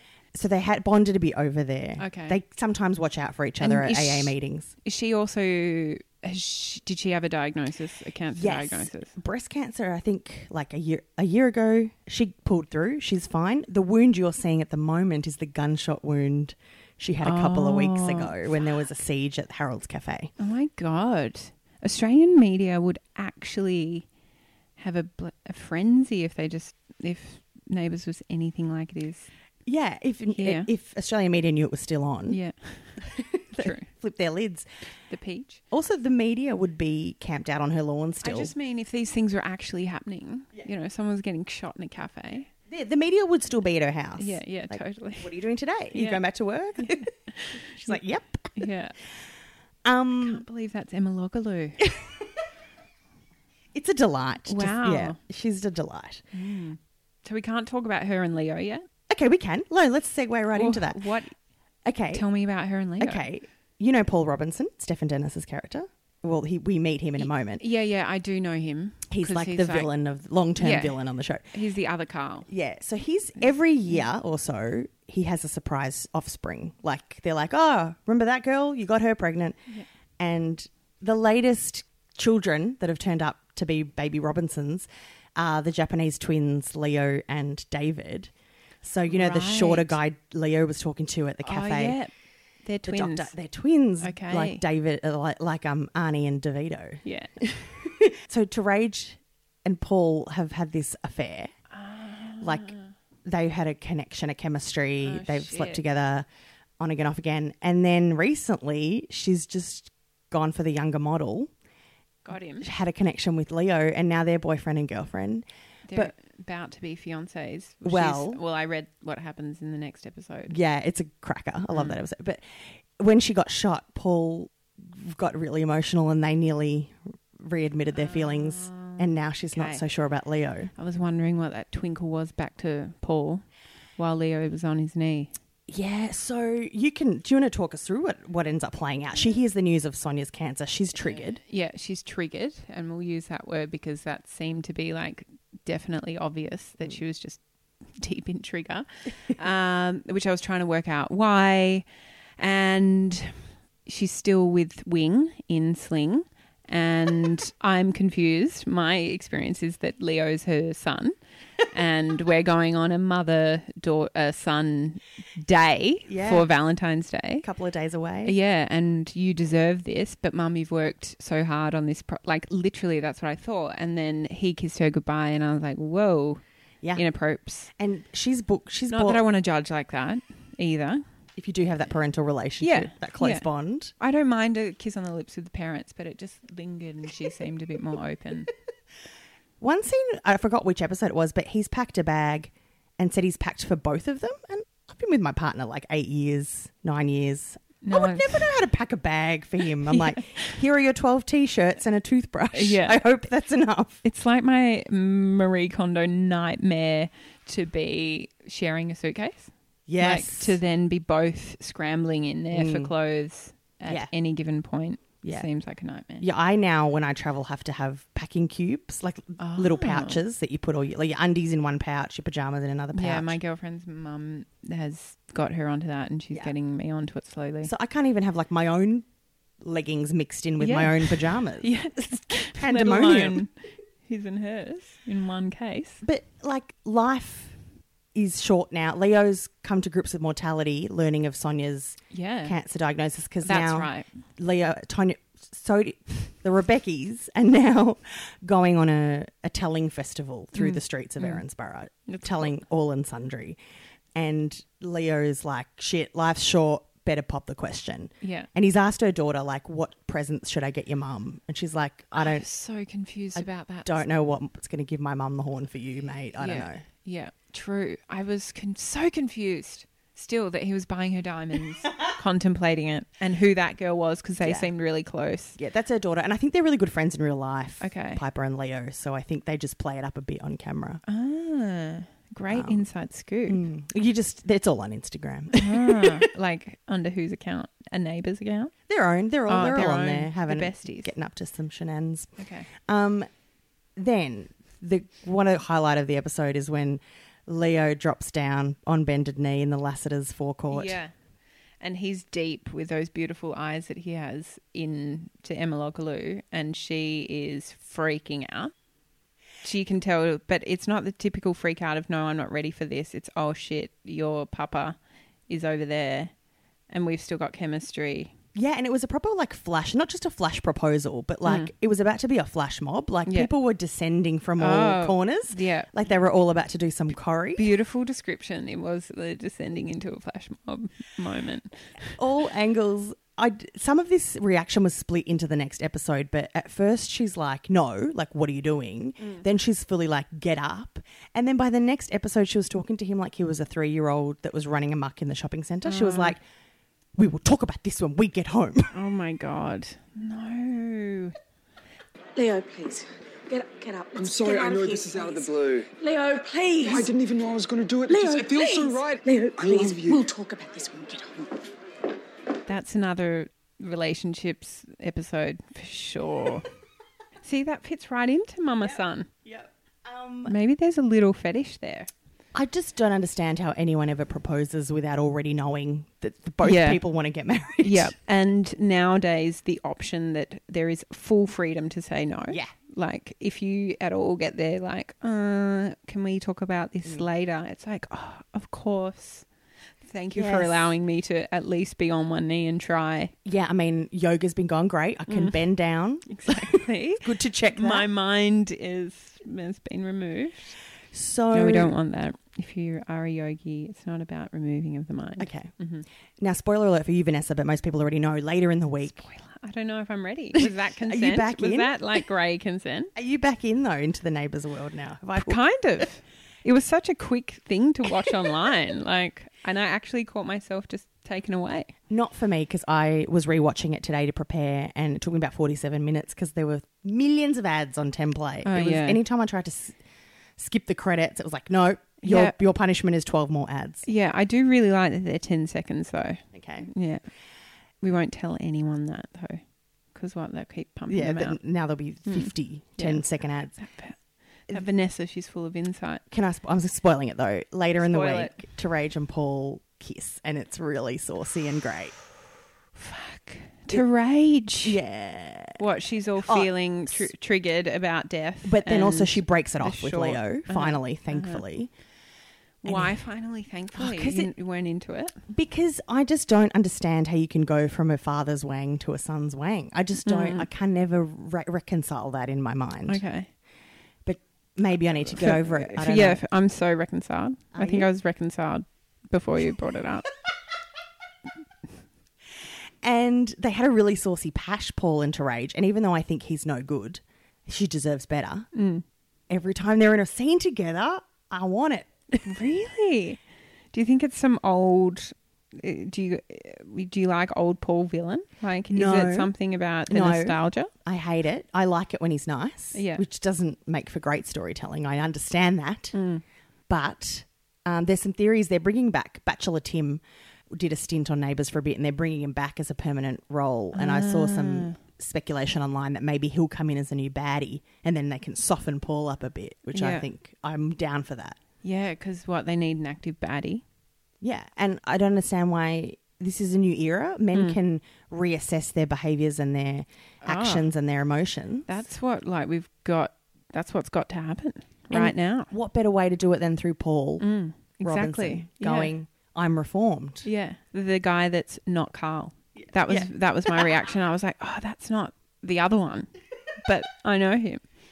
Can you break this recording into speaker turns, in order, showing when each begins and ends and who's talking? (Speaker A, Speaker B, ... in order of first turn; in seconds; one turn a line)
Speaker A: 0.3-4.7
Speaker B: 2.0-2.4
Speaker B: 3.6-9.1
Speaker A: 8.3-20.3
Speaker B: 17.2-18.3
Speaker B: 20.4-24.1
Speaker B: 24.8-29.3
Speaker A: 29.6-32.4
Speaker B: 30.3-30.7
Speaker B: 32.3-33.9
Speaker A: 33.0-34.7
Speaker B: 35.1-35.6
Speaker A: 35.7-38.5
Speaker B: 38.2-42.5
Speaker A: 42.7-48.7
Speaker B: 44.2-45.3
Speaker B: 45.9-46.2
Speaker B: 46.8-48.0
Speaker B: 48.5-49.0
Speaker A: 49.8-50.4
Speaker B: 50.2-51.9
Speaker A: 51.8-52.2
Speaker A: 53.7-56.2
Speaker B: 54.5-55.2
Speaker B: 56.3-58.9
Speaker A: 59.1-61.1
Speaker B: 60.5-61.4
Speaker A: 61.8-62.3
Speaker B: 62.1-63.2
Speaker A: 63.0-67.6
Speaker B: 67.2-69.9
Speaker A: 69.1-71.5
Speaker B: 70.6-71.0
Speaker B: 71.5-72.5
Speaker A: 72.5-79.6
Speaker A: 80.2-88.3
Speaker A: 88.8-92.0
Speaker B: 89.1-90.0
Speaker B: 91.4-92.1
Speaker B: 92.6-93.3
Speaker A: 92.8-101.5
Speaker B: 94.0-94.6
Speaker B: 97.0-97.3
Speaker B: 101.7-102.9
Speaker A: 102.4-102.7
Speaker A: 103.2-106.3
Speaker B: 105.0-105.8
Speaker A: 106.8-111.5
Speaker B: 112.2-112.7
Speaker A: 112.6-116.1
Speaker B: 115.9-120.5
Speaker A: 117.8-118.4
Speaker A: 120.5-130.7
Speaker B: 121.7-122.0
Speaker B: 127.9-129.8
Speaker B: 130.8-135.3
Speaker A: 135.7-141.4
Speaker B: 140.9-151.8
Speaker B: 152.4-167.4
Speaker A: 166.1-166.5
Speaker A: 167.4-168.3
Speaker B: 168.2-176.4
Speaker B: 176.9-177.7
Speaker A: 177.8-179.2
Speaker B: 178.9-181.0
Speaker A: 181.3-183.9
Speaker B: 182.6-183.4
Speaker B: 184.0-188.5
Speaker A: 189.6-204.0
Speaker B: 197.8-198.5
Speaker B: 199.8-200.5
Speaker B: 202.5-203.0
Speaker B: 204.0-216.2
Speaker A: 209.9-210.6
Speaker A: 212.5-212.9
Speaker A: 213.8-214.1
Speaker A: 215.2-215.5
Speaker A: 216.2-223.4
Speaker B: 219.4-220.2
Speaker B: 222.9-227.7
Speaker A: 227.6-229.1
Speaker A: 229.6-233.4
Speaker B: 230.6-236.0
Speaker A: 236.0-237.6
Speaker A: 238.1-253.6
Speaker B: 242.1-242.6
Speaker B: 243.4-244.2
Speaker B: 250.5-251.4
Speaker B: 252.1-252.5
Speaker A: 254.1-262.4
Speaker B: 258.2-258.5
Speaker B: 262.2-264.0
Speaker A: 263.3-266.8
Speaker B: 266.4-275.6
Speaker A: 274.4-274.7
Speaker A: 275.6-281.0
Speaker B: 277.8-278.2
Speaker B: 281.1-283.6
Speaker A: 282.5-282.9
Speaker A: 283.4-286.2
Speaker B: 285.6-288.7
Speaker A: 288.9-293.3
Speaker B: 289.5-291.1
Speaker B: 292.4-292.7
Speaker A: 293.9-301.0
Speaker B: 300.7-301.1
Speaker B: 301.8-308.7
Speaker B: 309.6-315.0
Speaker B: 315.5-316.3
Speaker B: 316.9-318.3
Speaker A: 318.5-327.7
Speaker B: 321.4-321.7
Speaker B: 323.2-323.5
Speaker B: 324.6-325.9
Speaker B: 327.6-332.1
Speaker A: 332.1-346.4
Speaker B: 339.2-339.4
Speaker B: 345.8-346.4
Speaker A: 347.1-348.9
Speaker B: 348.9-351.4
Speaker C: 352.4-357.1
Speaker D: 354.2-355.9
Speaker D: 356.8-360.3
Speaker C: 358.1-361.6
Speaker B: 362.6-366.7
Speaker B: 367.4-369.3
Speaker A: 368.8-370.5
Speaker B: 370.4-372.1
Speaker A: 372.5-378.1
Speaker B: 376.6-377.0
Speaker B: 377.8-389.5
Speaker B: 390.0-393.3
Speaker A: 390.3-390.9
Speaker A: 393.4-398.1
Speaker B: 395.3-395.6
Speaker B: 396.3-400.8
Speaker A: 401.1-401.9
Speaker B: 401.5-406.0
Speaker A: 405.4-405.7
Speaker A: 406.4-409.3
Speaker B: 409.0-413.1
Speaker A: 410.6-411.9
Speaker A: 413.1-415.6
Speaker B: 415.4-421.9
Speaker A: 422.1-430.0
Speaker B: 428.6-429.2
Speaker A: 430.6-434.1
Speaker B: 432.2-432.6
Speaker B: 434.0-437.2
Speaker A: 436.5-436.9
Speaker B: 438.0-441.6
Speaker A: 441.1-443.8
Speaker B: 442.2-446.2
Speaker A: 446.3-452.2
Speaker B: 448.0-448.6
Speaker B: 453.0-455.0
Speaker A: 454.8-455.8
Speaker B: 455.8-461.6
Speaker A: 456.4-457.3
Speaker A: 458.6-461.9
Speaker B: 462.8-465.4
Speaker A: 462.8-463.2
Speaker A: 463.9-464.5
Speaker A: 465.5-473.2
Speaker B: 470.2-470.7
Speaker B: 473.1-473.5
Speaker A: 474.2-476.4
Speaker B: 475.3-480.3
Speaker A: 477.7-478.1
Speaker A: 483.0-488.7
Speaker B: 488.7-489.0
Speaker A: 489.5-492.5
Speaker B: 492.4-493.4
Speaker B: 493.9-500.9
Speaker A: 498.9-499.5
Speaker A: 500.1-506.1
Speaker B: 502.9-503.2
Speaker B: 506.1-506.4
Speaker A: 506.9-521.6
Speaker B: 513.9-515.0
Speaker B: 519.9-520.2
Speaker B: 521.8-523.8
Speaker A: 524.4-531.9
Speaker B: 527.5-527.8
Speaker B: 530.4-530.9
Speaker B: 531.9-535.7
Speaker A: 535.1-537.5
Speaker B: 537.4-539.1
Speaker A: 538.0-540.5
Speaker B: 540.4-547.8
Speaker A: 542.8-543.9